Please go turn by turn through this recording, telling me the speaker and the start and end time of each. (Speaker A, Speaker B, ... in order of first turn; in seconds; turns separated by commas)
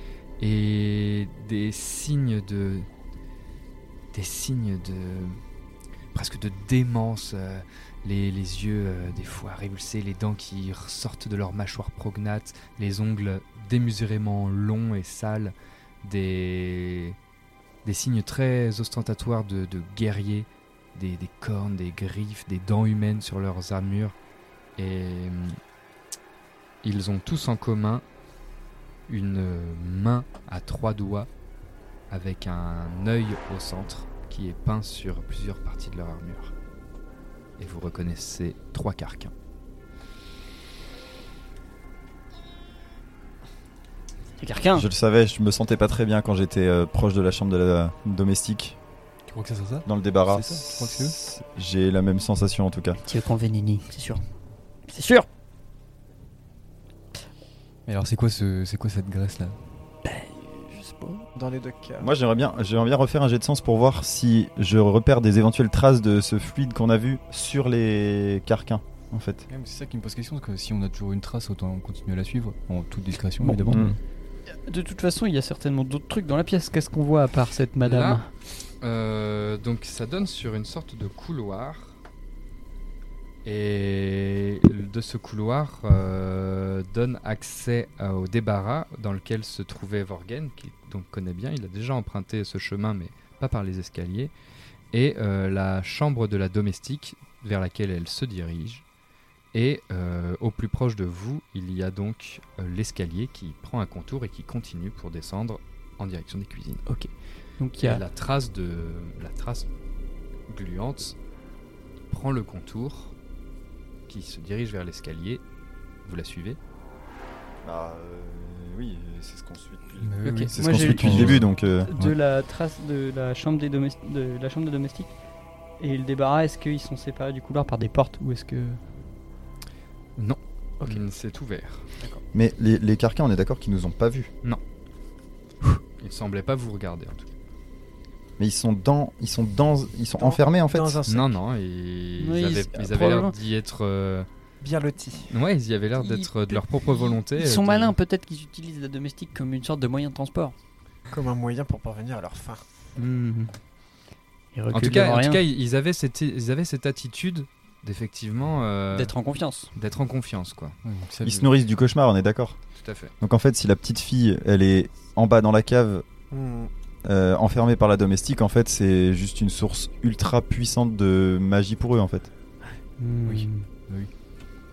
Speaker A: 0.4-2.9, Speaker A: 4.1-5.4, Speaker A: 6.1-17.2, Speaker A: 17.9-24.1, Speaker A: 24.8-25.6, Speaker A: 26.8-28.0, Speaker A: 29.1-31.3, Speaker A: 32.1-36.5, Speaker A: 37.6-39.3, Speaker B: 44.4-44.9, Speaker C: 44.7-48.8, Speaker D: 49.3-51.2, Speaker C: 49.9-53.0, Speaker B: 53.0-54.2, Speaker B: 54.9-55.3, Speaker D: 57.9-59.6, Speaker B: 60.0-61.3, Speaker E: 61.4-62.1, Speaker C: 62.0-69.5, Speaker D: 69.5-74.0, Speaker B: 73.4-73.8, Speaker C: 73.7-74.0, Speaker B: 74.5-78.3, Speaker A: 77.8-78.2, Speaker A: 78.8-82.0, Speaker A: 83.5-94.3, Speaker A: 94.9-98.8, Speaker A: 99.5-106.8, Speaker B: 106.9-108.0, Speaker A: 107.8-109.7, Speaker A: 110.5-111.2, Speaker A: 112.1-113.1, Speaker A: 114.1-115.4, Speaker A: 116.0-116.6, Speaker C: 117.6-121.9, Speaker D: 120.0-122.2, Speaker B: 120.2-125.1, Speaker B: 125.8-128.8, Speaker A: 130.2-131.9, Speaker C: 132.3-134.3, Speaker A: 136.0-137.3, Speaker C: 138.4-141.0, Speaker E: 140.2-141.3, Speaker A: 141.1-144.3, Speaker B: 142.2-143.3, Speaker E: 144.6-145.3, Speaker A: 145.3-147.9, Speaker B: 146.0-150.6, Speaker E: 151.1-152.6, Speaker B: 153.0-153.6, Speaker B: 154.5-155.4, Speaker A: 154.7-159.1, Speaker B: 158.9-159.7, Speaker A: 159.8-160.8, Speaker D: 160.8-161.5, Speaker C: 161.2-162.6, Speaker A: 162.8-163.1, Speaker C: 163.2-166.1, Speaker E: 166.3-166.7, Speaker C: 167.1-172.3, Speaker B: 173.0-173.7, Speaker D: 173.3-174.1